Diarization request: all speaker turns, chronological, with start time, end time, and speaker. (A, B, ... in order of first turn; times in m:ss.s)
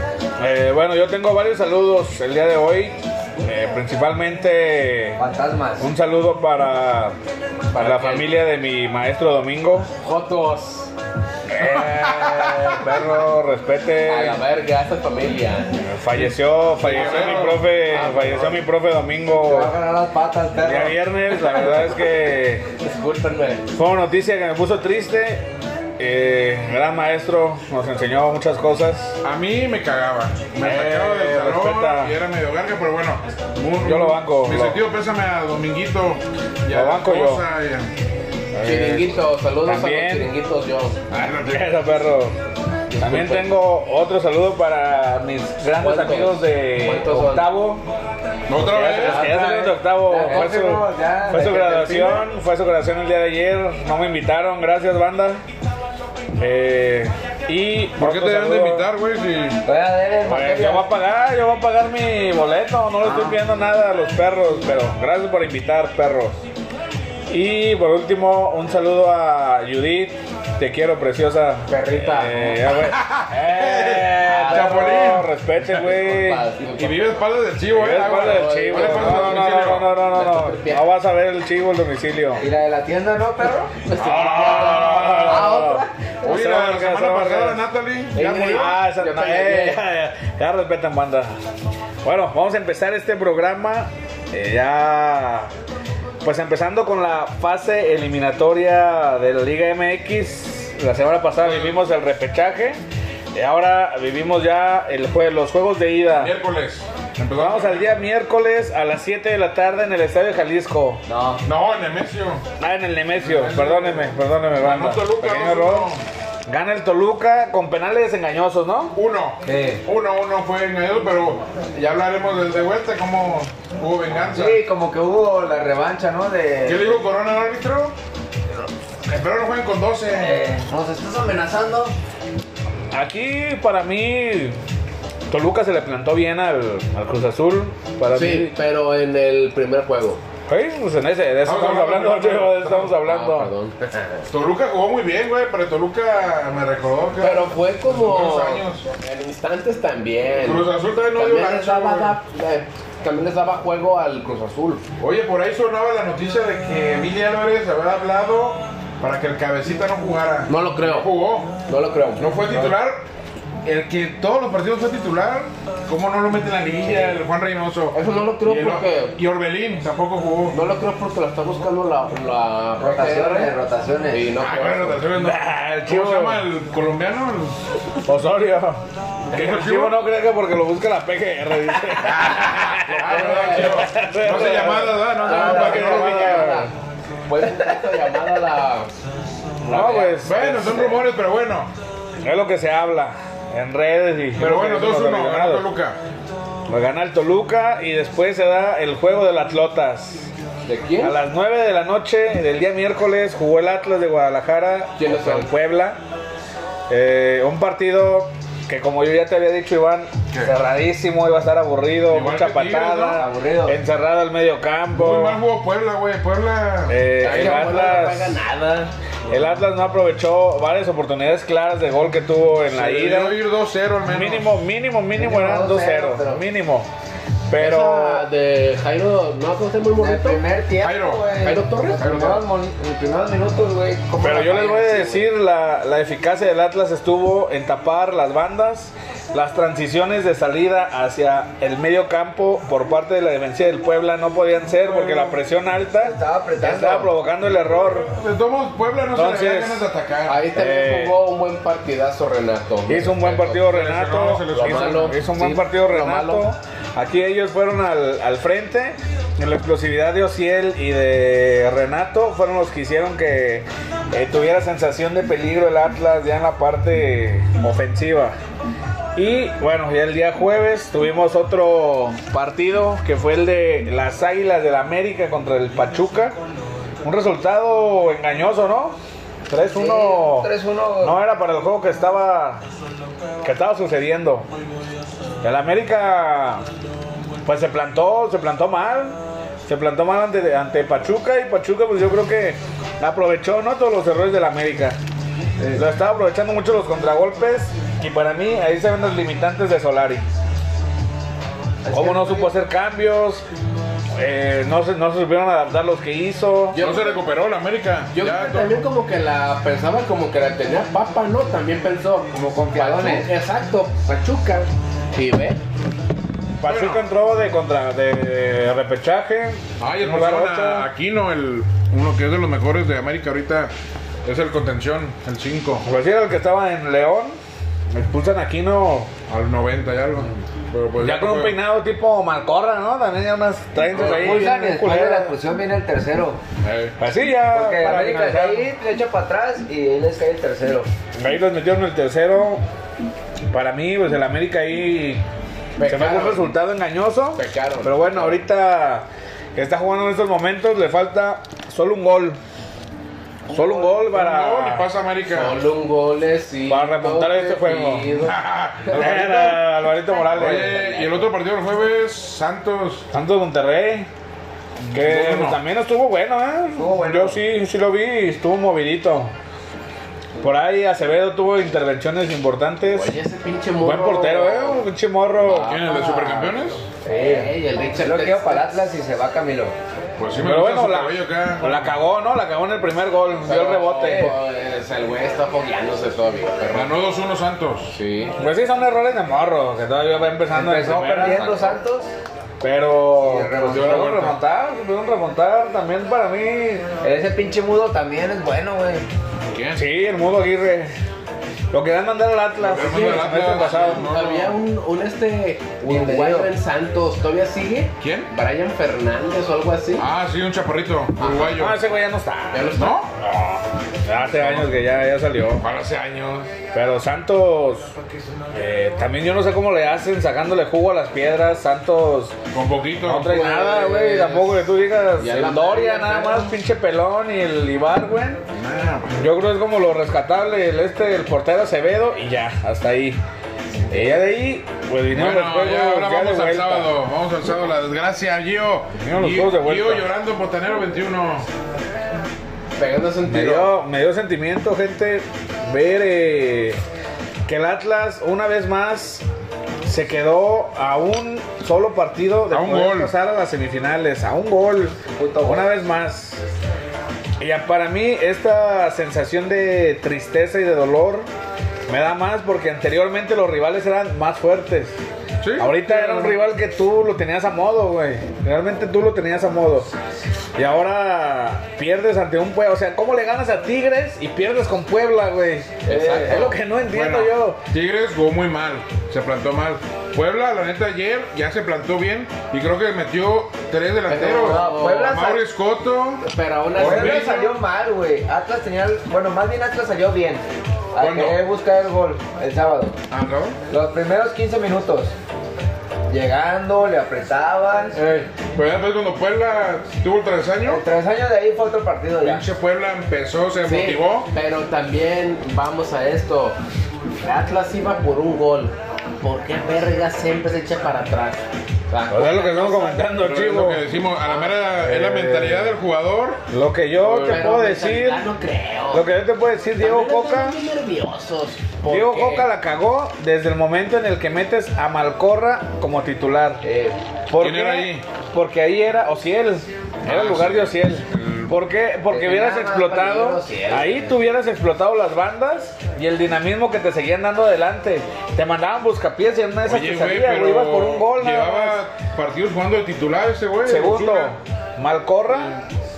0:00.4-0:05.2 A
0:05.2-0:05.9 B
0:05.8-0:07.2 A
0:07.7-0:08.4 C
0:07.8-0:09.9 A
0:10.0-0:10.9 C
0:11.5-0:14.4 A
0:11.5-0:13.0 C
0:14.0-0:15.8 C
0:15.8-0:19.7 A
0:16.8-0:18.6 C
0:16.8-0:17.6 D
0:19.4-0:21.0 B
0:20.6-0:22.7 A
0:21.4-0:21.8 C
0:22.8-0:23.6 C
0:23.7-0:25.4 A
0:26.0-0:29.2 A
0:29.2-0:37.9 D
0:30.6-0:32.2 A
0:33.8-0:34.8 A
0:36.7-0:37.4 A
0:38.5-0:40.3 A
0:38.6-0:41.0 C
0:41.1-0:42.4 A
0:41.4-0:41.6 D
0:42.9-0:43.5 C
0:43.0-0:47.8 A
0:45.8-0:47.5 C
0:48.5-0:49.2 D
0:48.6-0:55.4 A
0:48.8-0:52.2 B
0:56.4-0:58.9 A
0:58.0-0:59.6 D
0:59.6-1:00.9 B
1:00.2-1:06.4 A
1:03.0-1:03.4 B
1:07.3-1:16.5 A
1:11.7-1:12.7 C
1:12.8-1:15.3 D
1:14.3-1:15.0 C
1:15.6-1:17.2 C
1:16.7-1:19.9 D
1:17.6-1:22.4 A
1:18.0-1:20.8 C
1:22.4-1:23.7 B
1:23.8-1:25.9 C
1:24.0-1:25.7 D
1:24.0-1:27.6 A
1:26.2-1:28.7 D
1:28.1-1:29.8 C
1:28.5-1:31.3 A
1:32.0-1:35.5 A
1:36.2-1:42.8 A
1:41.4-1:41.8 D
1:43.3-1:46.3 A
1:46.2-1:47.9 D
1:47.4-1:51.0 A
1:51.0-1:51.4 B
1:51.4-1:52.4 D
1:52.6-1:55.9 A
1:53.2-1:54.1 D
1:54.6-1:56.0 D
1:56.5-1:59.0 A
1:58.9-2:04.6 D
1:59.4-1:59.8 B
2:04.3-2:07.0 B
2:06.6-2:07.9 D
2:09.0-2:10.5 D
2:10.2-2:11.9 B
2:12.9-2:14.6 A
2:15.3-2:18.5 A
2:18.0-2:20.2 C
2:20.5-2:23.5 A
2:21.4-2:22.8 D
2:22.9-2:24.2 C
2:24.3-2:28.8 D
2:27.2-2:34.8 C
2:30.4-2:32.2 D
2:35.0-2:41.5 D
2:40.5-2:41.1 C
2:41.6-2:42.3 C
2:42.2-2:43.0 D
2:43.6-2:50.6 D
2:47.9-2:49.2 C
2:50.5-2:53.5 C
2:52.8-2:54.4 B
2:54.1-2:55.1 C
2:54.4-2:57.5 D
2:55.2-2:56.4 A
2:58.0-3:06.7 A
2:59.3-3:00.0 D
3:02.0-3:06.5 D
3:02.9-3:06.7 C
3:07.3-3:08.9 C
3:09.6-3:11.1 C
3:09.7-3:10.4 A
3:10.2-3:11.7 D
3:12.2-3:15.6 A
3:14.4-3:16.0 D
3:16.7-3:20.3 A
3:20.6-3:21.2 C
3:21.0-3:26.0 A
3:25.0-3:25.5 C
3:26.9-3:35.4 A
3:32.1-3:33.2 D
3:33.1-3:33.8 B
3:34.9-3:37.0 D
3:36.9-3:38.4 A
3:37.2-3:38.9 C
3:39.3-3:43.4 A
3:42.7-3:44.5 D
3:44.0-3:46.9 A
3:45.1-3:46.4 B
3:47.5-3:48.2 A
3:47.5-3:50.4 C
3:50.0-3:55.3 B
3:50.8-3:51.4 D
3:51.4-3:52.3 C
3:51.9-3:52.4 D
3:54.2-4:08.1 A
4:06.0-4:07.1 B
4:07.8-4:10.4 D
4:09.1-4:09.8 A
4:10.3-4:13.6 C
4:10.5-4:11.2 A
4:12.9-4:28.3 A
4:13.6-4:15.1 D
4:14.5-4:16.4 C
4:29.2-4:36.3 A
4:37.0-4:39.0 A
4:39.5-4:40.5 A
4:39.7-4:41.2 B
4:41.0-4:42.6 A
4:43.4-4:44.5 A
4:45.4-4:46.6 A
4:47.4-4:55.0 A
4:55.7-5:00.2 A
5:01.8-5:02.5 B
5:01.9-5:03.4 A
5:04.1-5:06.8 A
5:06.7-5:07.2 C
5:06.8-5:08.8 D
5:08.1-5:15.6 C
5:12.3-5:13.3 B
5:16.6-5:20.9 A
5:16.6-5:17.0 D
5:19.8-5:23.7 D
5:24.2-5:25.8 D
5:25.8-5:27.4 A
5:27.9-5:29.1 A
5:29.3-5:31.6 D
5:31.0-5:35.4 A
5:33.9-5:34.4 D
5:34.0-5:36.4 B
5:36.6-5:37.0 D
5:37.0-5:38.7 A
5:37.5-5:40.9 B
5:41.2-5:42.6 A
5:43.5-5:45.2 A
5:45.8-5:46.5 C
5:45.8-5:52.4 A
5:47.4-5:48.4 C
5:53.5-5:53.9 B
5:53.5-5:54.9 A
5:54.0-5:55.6 D
5:55.3-5:58.4 C
5:56.7-5:58.1 A
5:58.2-5:59.6 D
5:58.9-6:00.8 A
6:00.3-6:03.1 D
6:00.3-6:01.3 C
6:03.1-6:04.1 A
6:04.8-6:05.6 D
6:04.9-6:09.3 A
6:06.7-6:07.4 B
6:10.4-6:13.2 A
6:12.9-6:14.8 C
6:13.8-6:15.8 A
6:15.4-6:16.5 C
6:15.6-6:16.9 D
6:17.0-6:19.7 B
6:17.0-6:18.8 C
6:20.2-6:21.9 D
6:20.4-6:24.4 A
6:23.4-6:27.0 C
6:26.7-6:28.0 D
6:27.9-6:28.4 C
6:28.4-6:31.8 A
6:30.5-6:32.1 B
6:32.6-6:36.9 A
6:33.2-6:34.1 B
6:33.6-6:34.4 D
6:37.0-6:39.0 B
6:39.5-6:39.8 D
6:39.7-6:40.9 A
6:41.7-6:44.1 A
6:42.6-6:44.6 D
6:42.7-6:50.1 C
6:45.8-6:46.5 B
6:48.0-6:48.3 D
6:50.0-6:51.8 D
6:51.2-6:51.6 C
6:51.5-6:55.6 A
6:52.5-6:53.0 C
6:52.8-6:53.1 D
6:54.4-6:54.8 D
6:55.6-6:56.5 D
6:56.7-6:57.9 A
6:58.5-7:02.4 A
7:02.5-7:03.3 D
7:03.0-7:08.4 A
7:03.2-7:04.6 C
7:05.2-7:06.5 C
7:08.5-7:09.2 D
7:09.1-7:13.2 A
7:13.9-7:16.9 A
7:15.1-7:21.5 D
7:19.0-7:20.1 A
7:22.8-7:23.7 C
7:23.2-7:26.8 A
7:27.5-7:29.2 A
7:29.8-7:36.4 A
7:32.5-7:33.1 D
7:35.1-7:35.7 B
7:37.4-7:41.3 A
7:41.9-7:45.0 A
7:45.4-7:46.3 D
7:45.6-7:49.9 A
7:50.6-7:57.6 A
7:55.8-7:56.6 C
7:55.9-7:56.5 B
7:56.9-8:07.6 D
8:04.1-8:05.1 C
8:04.4-8:05.4 B
8:06.2-8:07.3 C
8:06.8-8:13.0 B
8:11.0-8:11.4 D
8:13.1-8:13.6 D
8:13.7-8:15.1 B
8:16.1-8:18.0 B
8:17.9-8:20.8 D
8:20.6-8:22.5 B
8:22.2-8:24.3 D
8:23.6-8:26.6 C
8:27.2-8:33.1 C
8:32.1-8:33.8 A
8:33.2-8:36.4 D
8:34.2-8:34.9 C
8:34.8-8:35.7 A
8:36.5-8:38.2 A
8:37.0-8:39.1 C
8:38.9-8:40.6 A
8:39.8-8:42.5 C
8:41.8-8:46.6 A
8:46.6-8:46.9 B
8:47.3-9:01.8 A
8:47.4-8:48.0 D
8:50.0-8:51.5 D
8:52.1-8:54.2 B
8:59.6-9:04.3 D
9:03.6-9:05.6 A